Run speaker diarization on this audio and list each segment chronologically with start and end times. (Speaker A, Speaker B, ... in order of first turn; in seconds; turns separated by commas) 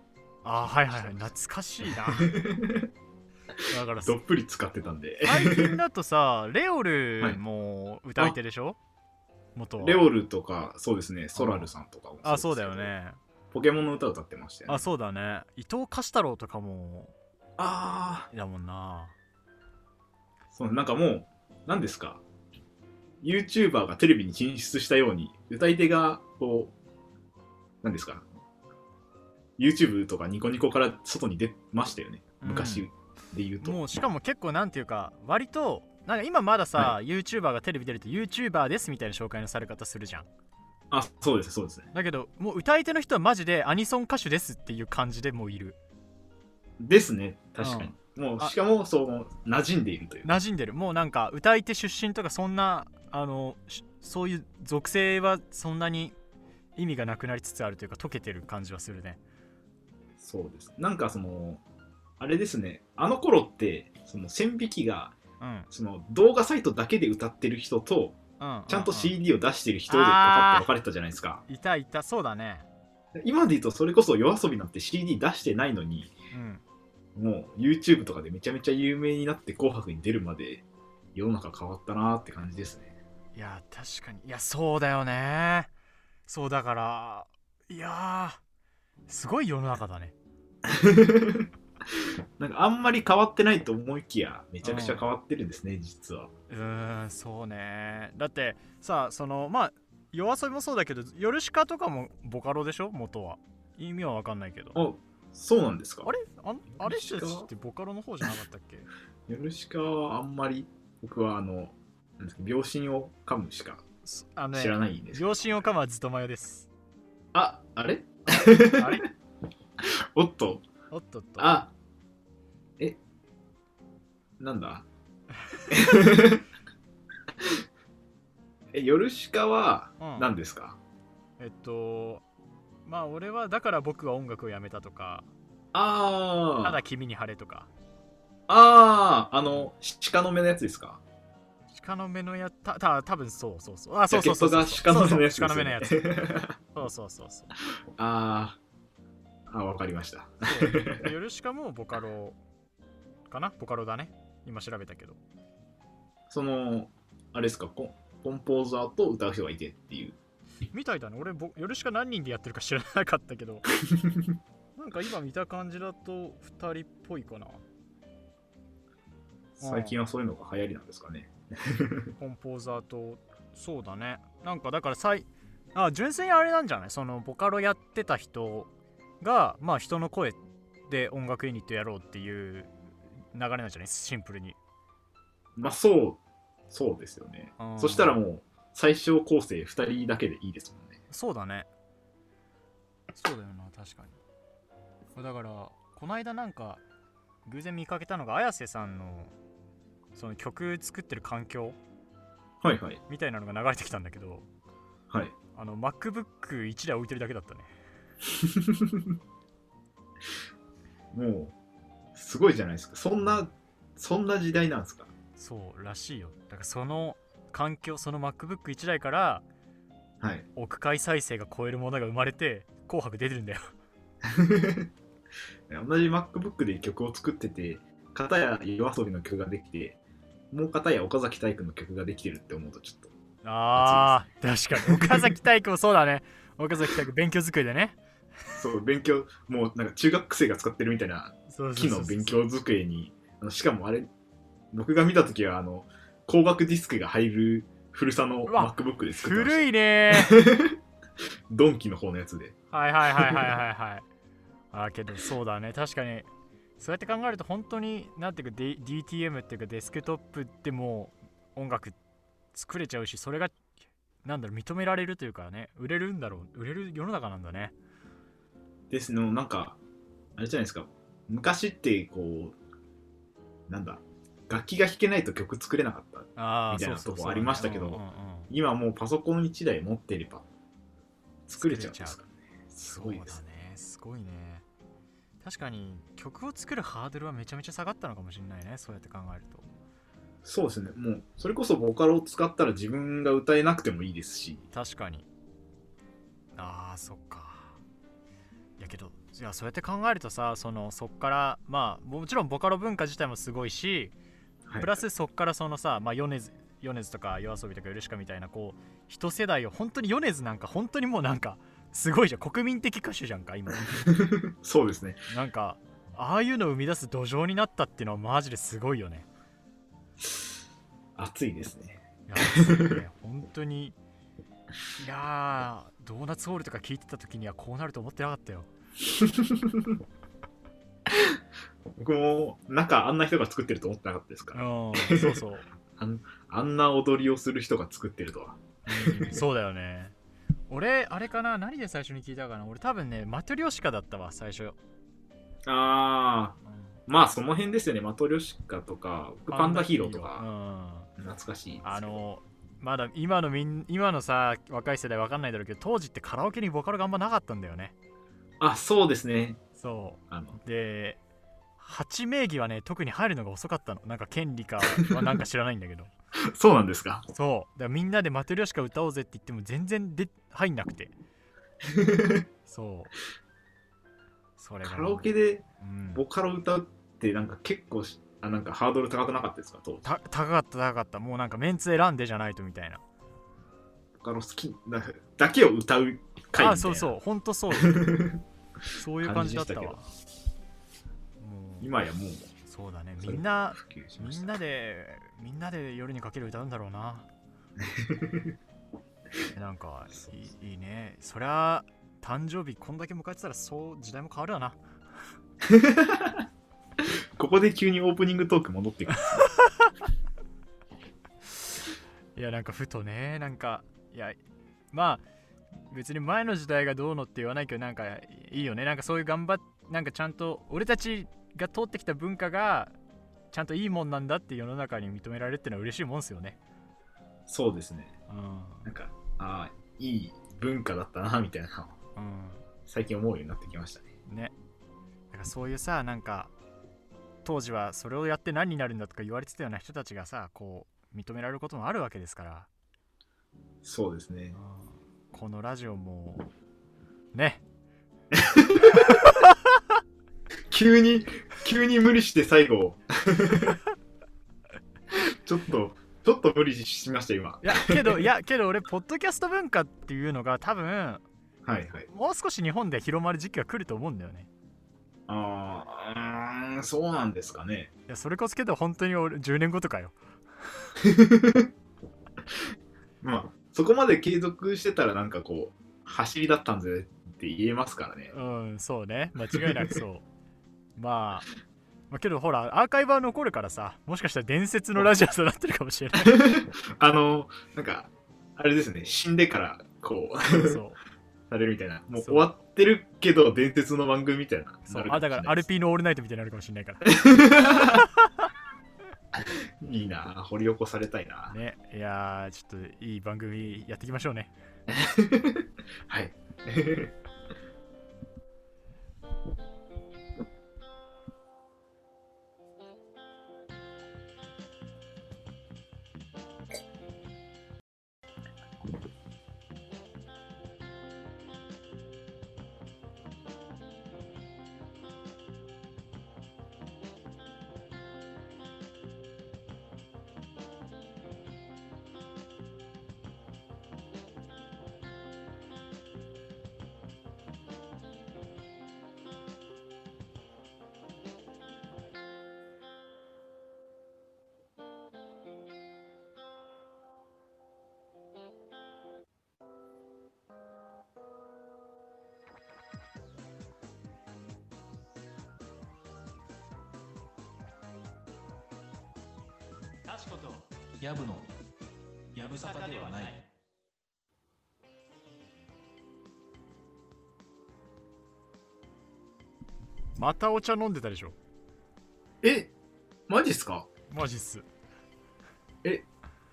Speaker A: 0.4-2.4, Speaker B: 0.7-1.3, Speaker B: 2.1-2.9, Speaker A: 3.7-4.2, Speaker B: 4.0-5.8, Speaker A: 5.2-8.8, Speaker A: 9.5-10.0, Speaker B: 9.8-12.9, Speaker A: 11.3-11.7, Speaker A: 12.2-13.2, Speaker B: 13.5-14.8, Speaker A: 14.7-17.1, Speaker B: 17.6-18.3, Speaker A: 18.3-19.1, Speaker B: 20.5-22.2, Speaker B: 23.2-26.7, Speaker B: 27.8-28.2, Speaker B: 29.6-33.8, Speaker A: 32.4-32.9, Speaker A: 33.6-40.3, Speaker B: 40.9-41.9, Speaker A: 41.9-45.8, Speaker B: 46.8-50.4, Speaker A: 47.6-48.5, Speaker A: 50.2-56.1, Speaker A: 56.8-59.2, Speaker B: 60.2-61.6, Speaker B: 62.2-65.2, Speaker A: 65.4-65.7, Speaker B: 65.7-71.4, Speaker A: 68.4-69.1, Speaker A: 69.9-70.7, Speaker A: 71.5-72.7, Speaker B: 73.2-76.1, Speaker A: 76.3-76.6, Speaker B: 77.2-80.6, Speaker B: 81.1-82.9, Speaker A: 83.3-85.7, Speaker A: 86.2-88.4, Speaker A: 89.1-90.1, Speaker B: 90.6-96.3, Speaker A: 94.6-95.0, Speaker A: 96.5-104.8, Speaker B: 104.7-106.1, Speaker A: 106.0-108.9, Speaker B: 106.8-107.5, Speaker B: 109.3-113.8, Speaker A: 114.0-116.7, Speaker B: 114.5-115.3, Speaker B: 117.3-119.0, Speaker A: 118.7-119.1, Speaker B: 119.8-120.7, Speaker A: 120.9-121.5, Speaker B: 121.4-121.7, Speaker B: 124.4-124.8, Speaker B: 125.7-126.4, Speaker B: 128.7-130.8, Speaker A: 130.0-130.3, Speaker A: 131.4-132.2, Speaker A: 132.8-135.3, Speaker B: 135.7-136.8, Speaker A: 136.6-137.7, Speaker B: 138.5-141.0, Speaker A: 141.7-147.5, Speaker B: 144.1-146.6, Speaker B: 148.0-148.6, Speaker B: 149.5-151.1, Speaker A: 150.4-152.4, Speaker A: 153.3-155.2, Speaker B: 156.3-160.2, Speaker A: 160.7-163.6, Speaker B: 163.9-164.2, Speaker A: 164.7-167.6, Speaker B: 169.6-172.1, Speaker A: 169.6-169.9, Speaker A: 172.2-178.7, Speaker A: 179.2-182.7, Speaker A: 183.3-184.6, Speaker B: 185.6-191.0, Speaker A: 187.6-188.2, Speaker A: 191.1-191.7, Speaker A: 193.1-194.2, Speaker A: 195.1-196.8, Speaker A: 197.4-199.3, Speaker A: 200.1-201.8, Speaker B: 202.6-203.0, Speaker A: 203.1-204.4, Speaker A: 205.5-207.7, Speaker B: 208.3-209.1, Speaker B: 211.1-211.5, Speaker B: 212.1-215.1, Speaker A: 215.4-219.4, Speaker B: 220.2-220.5, Speaker A: 220.6-223.6, Speaker B: 224.2-224.9, Speaker B: 225.7-230.0, Speaker B: 230.5-233.1, Speaker A: 233.4-238.0, Speaker B: 233.7-234.2, Speaker B: 234.8-235.3, Speaker B: 238.5-244.1, Speaker A: 241.5-242.4, Speaker B: 244.7-250.8, Speaker A: 248.5-250.4, Speaker B: 251.5-252.5, Speaker A: 252.7-254.0, Speaker B: 253.2-253.5, Speaker A: 254.7-261.9, Speaker A: 262.5-263.6, Speaker A: 264.2-267.7, Speaker B: 268.9-269.8, Speaker B: 270.4-272.5, Speaker B: 273.7-280.4, Speaker A: 276.4-278.5, Speaker B: 281.5-283.4, Speaker A: 281.5-282.2, Speaker A: 282.8-284.6, Speaker A: 285.4-289.7, Speaker B: 290.4-294.6, Speaker A: 294.7-295.3, Speaker A: 296.6-297.8, Speaker A: 298.8-304.1, Speaker B: 304.7-305.0, Speaker A: 304.8-314.0, Speaker B: 313.9-315.2, Speaker A: 315.3-319.3, Speaker B: 321.2-323.0, Speaker A: 322.3-323.9, Speaker A: 325.0-328.7, Speaker B: 329.1-329.9, Speaker B: 331.1-331.4, Speaker B: 332.0-335.4, Speaker A: 334.5-335.6, Speaker B: 335.9-339.4, Speaker A: 338.9-340.1, Speaker A: 340.7-344.8, Speaker B: 345.6-346.6, Speaker B: 347.1-350.4, Speaker A: 349.5-351.1, Speaker B: 351.2-352.2, Speaker A: 351.8-357.9, Speaker B: 358.6-359.6, Speaker A: 359.8-361.2, Speaker B: 360.3-360.6, Speaker A: 361.8-366.1, Speaker B: 366.5-367.2, Speaker A: 367.3-371.1, Speaker B: 371.9-372.4, Speaker A: 372.7-373.1, Speaker A: 374.6-376.2, Speaker B: 374.8-380.0, Speaker A: 380.0-383.0, Speaker B: 384.2-387.1, Speaker A: 386.6-388.2, Speaker B: 387.8-388.4, Speaker A: 388.9-390.1, Speaker B: 389.2-390.0, Speaker A: 391.4-391.9, Speaker B: 391.8-392.5, Speaker A: 392.7-397.3, Speaker B: 393.2-394.5, Speaker B: 397.8-398.6, Speaker A: 399.5-404.8, Speaker B: 405.6-406.4, Speaker B: 407.0-409.5, Speaker A: 409.4-409.9, Speaker A: 412.3-414.4, Speaker A: 414.9-415.2, Speaker A: 415.9-422.9, Speaker A: 423.5-426.6, Speaker B: 427.5-428.1, Speaker A: 428.3-428.9, Speaker B: 428.8-431.9, Speaker A: 432.1-432.6, Speaker B: 432.9-434.1, Speaker A: 434.3-434.5, Speaker A: 435.3-436.5, Speaker A: 437.4-442.7, Speaker B: 443.8-444.6, Speaker A: 444.5-446.5, Speaker A: 447.3-447.6, Speaker B: 448.3-449.1, Speaker A: 449.1-449.8, Speaker B: 450.7-453.8, Speaker B: 455.1-458.2, Speaker A: 457.6-461.2, Speaker B: 461.6-462.1, Speaker A: 462.1-464.5, Speaker B: 465.3-467.9, Speaker A: 468.1-470.1, Speaker B: 471.0-471.7, Speaker B: 473.2-478.3, Speaker A: 478.3-480.2, Speaker B: 479.5-479.9, Speaker A: 480.9-481.5, Speaker A: 482.1-486.5, Speaker B: 486.1-490.8, Speaker A: 490.6-491.0, Speaker B: 491.5-495.6, Speaker A: 492.2-492.4, Speaker A: 494.9-498.5, Speaker B: 497.1-498.1, Speaker B: 499.3-501.5, Speaker A: 501.5-504.5, Speaker B: 504.9-507.1, Speaker C: 560.1-561.5, Speaker C: 562.3-563.5, Speaker A: 570.1-571.4, Speaker B: 572.4-572.7, Speaker B: 573.3-573.9, Speaker A: 574.1-574.7